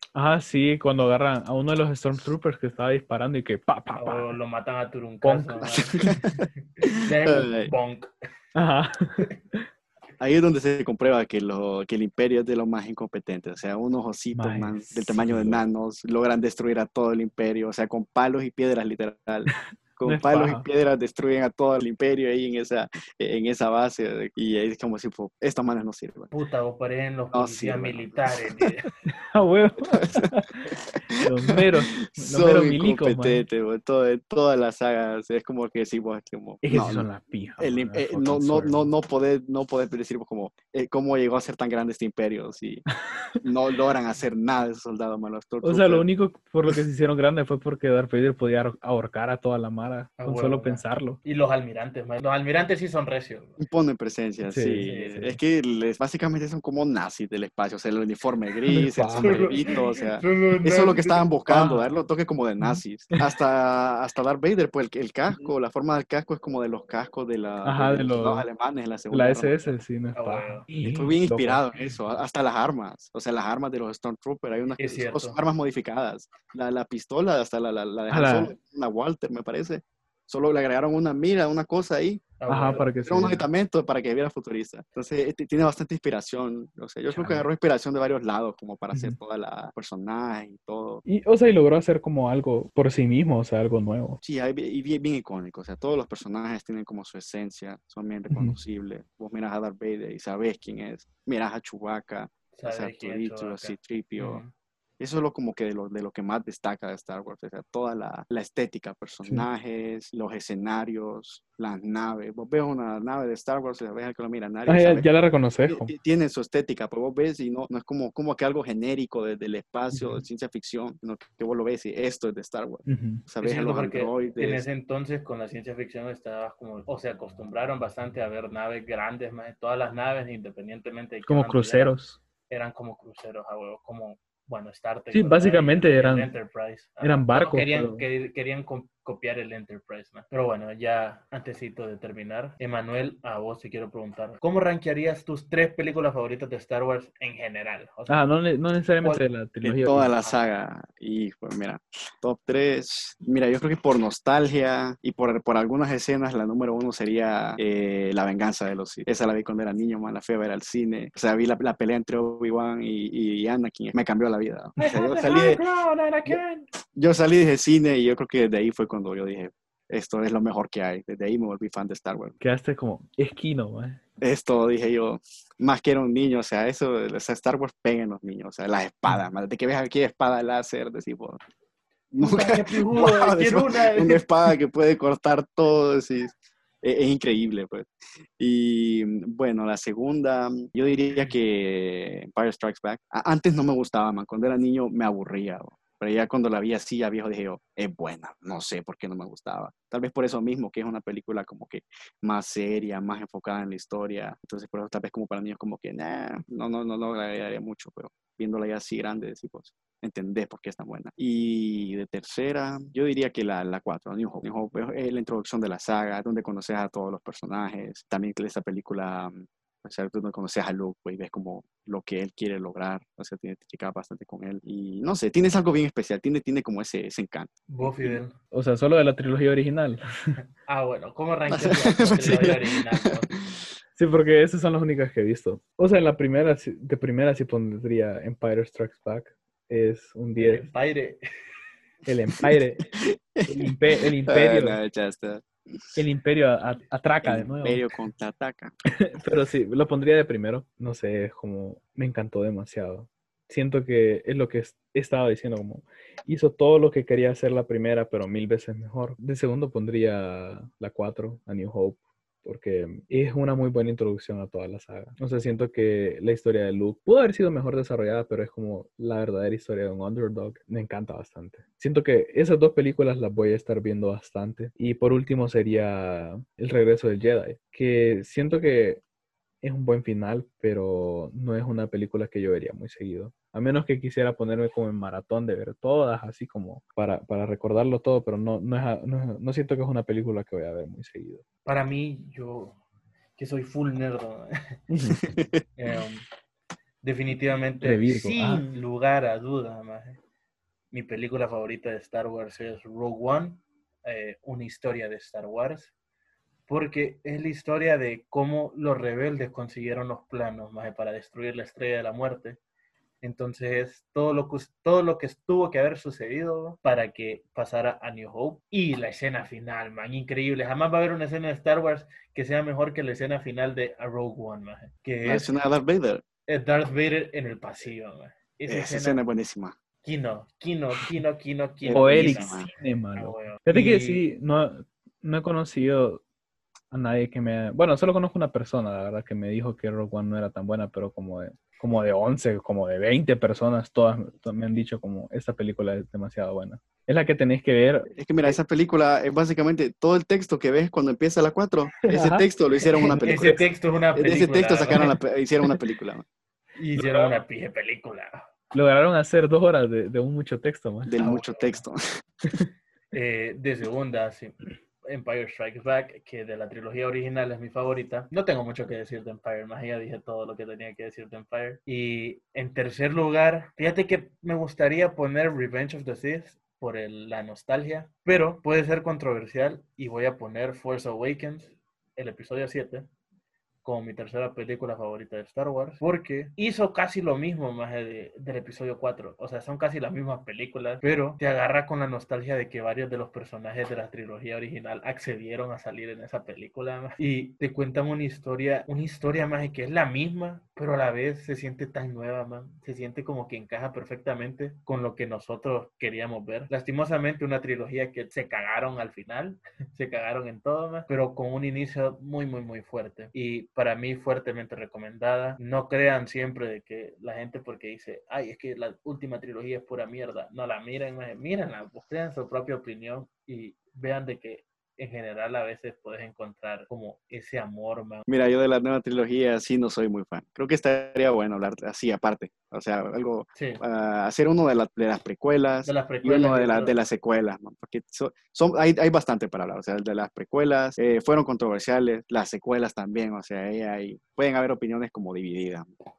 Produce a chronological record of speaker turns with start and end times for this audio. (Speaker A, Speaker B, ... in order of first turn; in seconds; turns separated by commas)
Speaker A: 0.1-4.4, Speaker B: 4.0-6.5, Speaker A: 5.2-6.2, Speaker C: 5.6-6.4, Speaker B: 7.0-8.1, Speaker C: 7.3-7.7, Speaker A: 8.6-9.7, Speaker C: 10.2-26.3, Speaker A: 14.3-15.6, Speaker A: 20.0-20.6, Speaker B: 26.3-28.9, Speaker C: 27.3-28.1, Speaker A: 29.3-33.5, Speaker C: 29.9-30.3, Speaker C: 31.1-42.9, Speaker A: 36.6-38.9, Speaker A: 42.9-43.4, Speaker C: 43.4-46.1, Speaker A: 45.6-51.2, Speaker B: 50.2-53.6, Speaker C: 53.6-69.8, Speaker A: 54.5-55.4, Speaker B: 54.8-55.2, Speaker A: 58.7-59.7, Speaker B: 59.2-61.9, Speaker A: 62.6-63.3, Speaker A: 67.7-68.5, Speaker A: 69.1-71.6, Speaker B: 70.2-70.7, Speaker C: 70.8-82.3, Speaker B: 74.8-75.4, Speaker A: 78.1-78.5, Speaker B: 82.4-82.9, Speaker A: 82.5-83.5, Speaker C: 83.0-91.0, Speaker A: 87.1-87.5, Speaker A: 88.9-89.2, Speaker A: 91.1-94.2, Speaker C: 94.2-104.4, Speaker A: 98.3-98.6, Speaker B: 102.5-104.5, Speaker C: 105.0-115.1, Speaker A: 114.7-115.9, Speaker C: 115.7-124.7, Speaker A: 119.9-120.2, Speaker A: 122.9-123.2, Speaker B: 123.4-132.0, Speaker A: 131.3-132.2, Speaker B: 132.5-148.2, Speaker A: 135.1-136.3, Speaker A: 137.0-138.1, Speaker A: 148.1-150.1, Speaker C: 149.6-165.6, Speaker B: 164.8-166.7, Speaker C: 166.9-172.4, Speaker A: 172.4-174.0, Speaker C: 174.2-181.4, Speaker C: 182.1-228.2, Speaker B: 182.2-184.2, Speaker B: 227.7-228.3, Speaker A: 228.5-230.4, Speaker B: 230.7-233.3, Speaker C: 231.5-233.7, Speaker A: 232.2-232.5, Speaker A: 234.0-240.7, Speaker B: 240.4-241.2, Speaker A: 242.1-242.9, Speaker C: 242.4-246.0, Speaker A: 243.5-244.8, Speaker A: 246.0-247.8, Speaker C: 247.2-248.7, Speaker A: 248.9-279.0, Speaker A: 279.6-291.4, Speaker B: 291.6-292.8, Speaker B: 293.4-294.5, Speaker A: 294.9-295.2, Speaker C: 295.2-295.6, Speaker B: 295.8-296.2, Speaker B: 297.0-300.2, Speaker A: 297.8-298.6, Speaker B: 300.9-305.9, Speaker B: 306.7-312.6, Speaker B: 313.2-325.5, Speaker C: 325.2-326.2, Speaker B: 326.5-329.2, Speaker C: 328.7-329.8, Speaker B: 330.0-334.2, Speaker C: 331.8-332.7, Speaker A: 331.9-336.2, Speaker A: 336.9-348.6, Speaker C: 348.1-353.6, Speaker A: 352.0-353.6, Speaker B: 353.2-355.1, Speaker C: 354.1-356.3, Speaker B: 356.8-358.4, Speaker A: 358.7-361.2, Speaker C: 361.1-362.0, Speaker B: 361.1-361.8, Speaker B: 363.1-383.1, Speaker B: 383.8-428.3, Speaker C: 428.3-445.9, Speaker B: 433.6-433.8, Speaker B: 435.9-436.9